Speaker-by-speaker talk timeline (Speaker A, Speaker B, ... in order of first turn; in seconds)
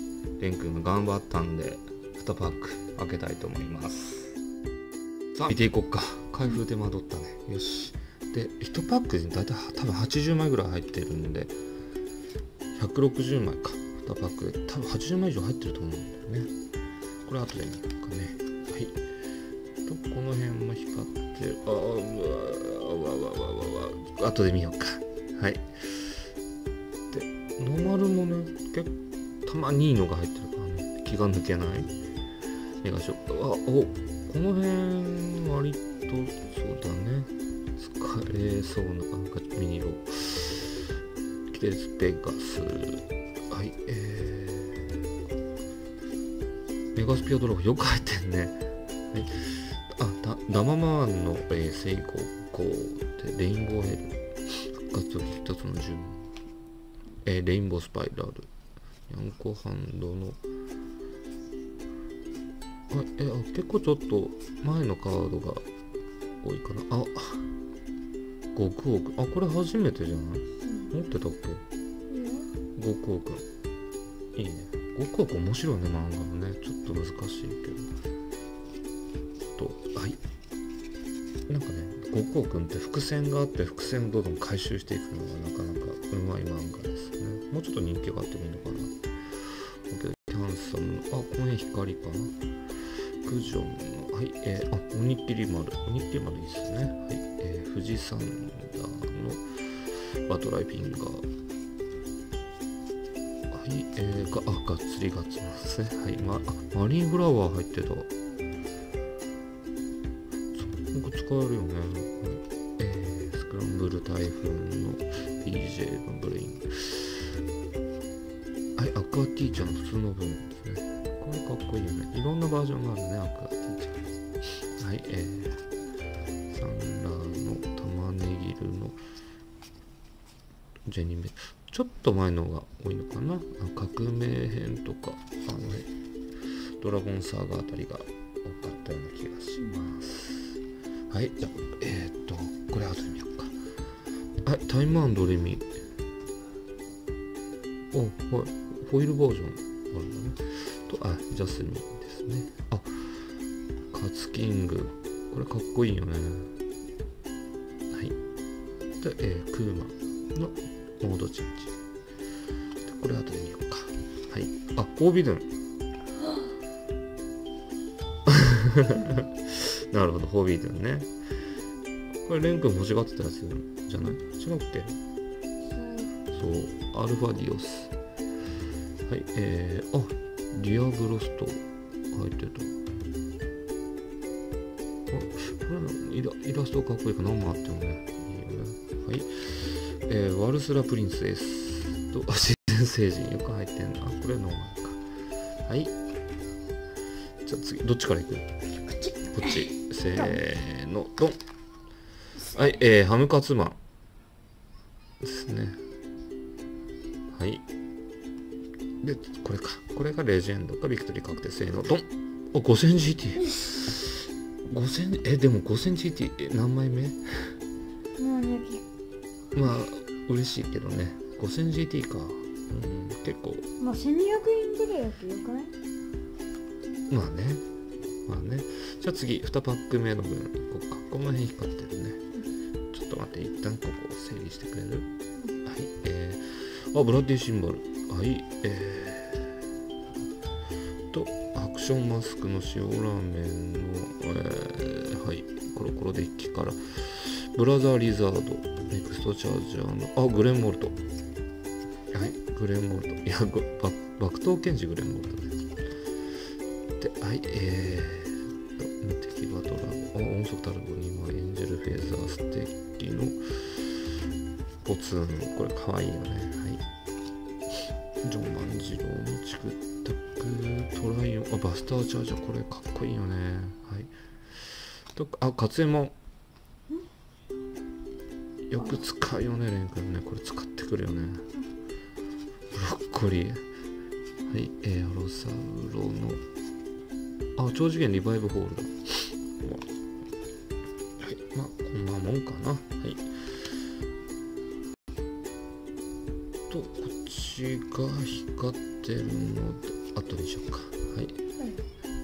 Speaker A: 0.4-4.4, 5.3-11.6, 12.8-16.5, 17.3-19.0, 19.9-26.2, 27.1-31.9, 32.8-40.9, 41.5-44.9, 47.0-48.6, 49.1-56.3, 57.3-58.5, 59.1-60.4, 62.9-65.7, 66.4-67.5, 68.5-71.6, 72.8-73.5, 74.3-77.9, 79.6-80.2, 81.5-89.0, 89.9-92.3, 93.2-101.3, 103.5-108.1, 110.5-117.2, 118.8-124.1, 124.8-125.6, 126.5-129.0, 130.9-135.9, 136.8-143.5, 144.4-145.7, 147.9-153.1, 153.9-156.5, 157.9-158.2, 159.0-161.7, 162.8-165.5, 168.3-171.1, 172.2-175.0, 176.3-177.9, 179.1-182.8, 185.1-195.0, 195.7-195.9, 197.4-198.5, 199.3-201.4, 202.4-203.8, 205.2-205.8, 207.3-207.7, 209.0-217.5, 219.6-223.7, 227.1-227.6, 228.3-232.2, 232.9-235.1, 235.6-239.6, 241.1-251.0, 252.1-255.6, 257.0-263.9, 264.8-266.8, 268.2-276.2, 278.7-281.5, 282.7-283.6, 284.5-286.4, 287.6-289.9, 291.2-293.3, 296.7-301.4
Speaker B: 72.1-72.5, 175.7-176.1, 198.8-199.4, 200.1-200.4, 218.2-218.8, 223.8-225.7